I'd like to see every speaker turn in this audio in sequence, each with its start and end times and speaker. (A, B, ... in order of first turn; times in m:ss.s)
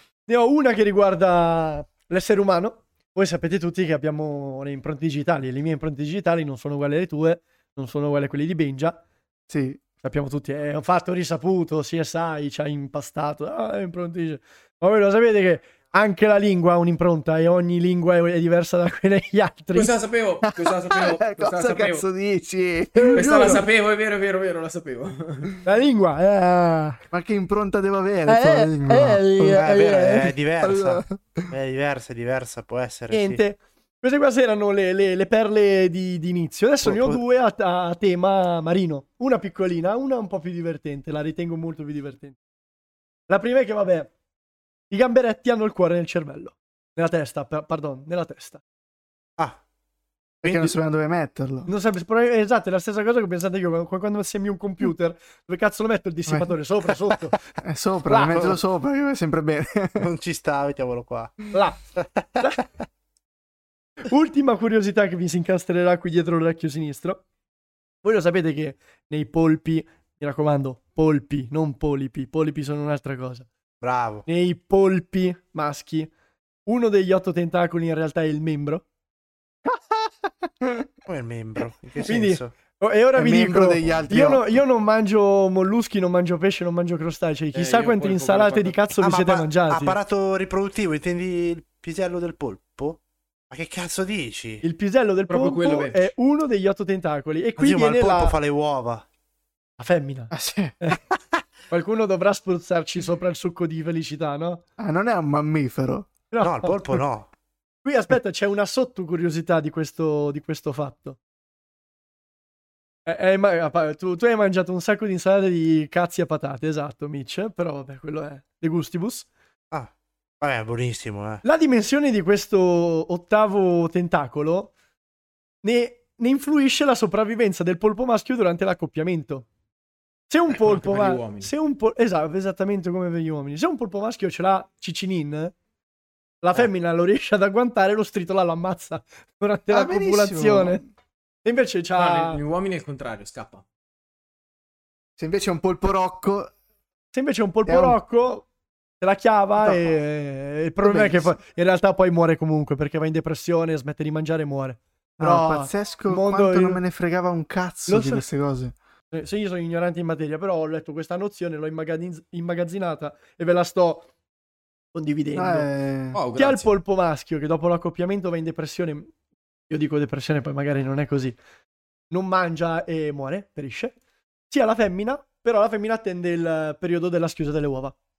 0:00.3-0:09.0 A
0:09.5-0:09.8 B
0:10.0-0:19.9 A
0:19.7-0:22.0 C
0:20.4-0:23.6 B
0:23.0-0:23.6 A
0:23.1-0:25.6 C
0:25.6-0:27.0 A
0:27.1-0:29.2 B
0:28.3-0:30.3 A
0:29.4-0:33.4 D
0:30.6-0:31.5 B
0:33.1-0:42.3 A
0:36.8-0:37.2 D
0:43.3-0:44.1 A
0:44.9-0:48.6 A
0:50.4-0:50.7 D
0:50.4-0:51.7 B
0:51.7-0:57.5 A
0:56.3-0:56.5 B
0:57.6-1:00.1 B
0:58.1-0:58.5 A
1:00.0-1:02.5 D
1:01.5-1:01.8 A
1:02.4-1:02.6 A
1:04.0-1:07.2 A
1:08.0-1:13.5 A
1:13.8-1:14.2 D
1:14.3-1:16.1 A
1:16.6-1:18.8 A
1:21.1-1:22.5 D
1:22.0-1:30.0 A
1:23.1-1:24.4 B
1:27.5-1:28.8 C
1:28.9-1:33.0 D
1:33.5-1:34.6 D
1:34.6-1:38.4 A
1:35.3-1:36.1 C
1:37.6-1:39.0 D
1:39.8-1:41.0 A
1:40.3-1:40.9 B
1:41.7-1:44.6 A
1:44.8-1:46.1 B
1:46.3-1:47.0 A
1:46.4-1:47.3 D
1:47.8-1:51.2 A
1:53.0-1:59.3 A
1:59.7-2:01.4 D
2:01.4-2:04.7 A
2:05.6-2:09.4 A
2:10.3-2:15.5 A
2:10.5-2:11.5 C
2:16.4-2:20.8 A
2:19.7-2:20.9 B
2:21.4-2:22.4 A
2:22.0-2:23.6 C
2:25.2-2:26.5 B
2:27.1-2:28.5 A
2:27.6-2:28.0 B
2:29.0-2:36.8 A
2:29.6-2:29.9 B
2:30.8-2:31.4 B
2:35.2-2:38.7 B
2:37.9-2:38.2 A
2:39.1-2:44.1 A
2:44.9-2:45.7 A
2:45.3-2:46.2 B
2:46.1-2:46.7 C
2:46.3-2:49.1 A
2:49.7-2:51.4 A
2:52.1-2:54.0 A
2:54.5-2:57.9 A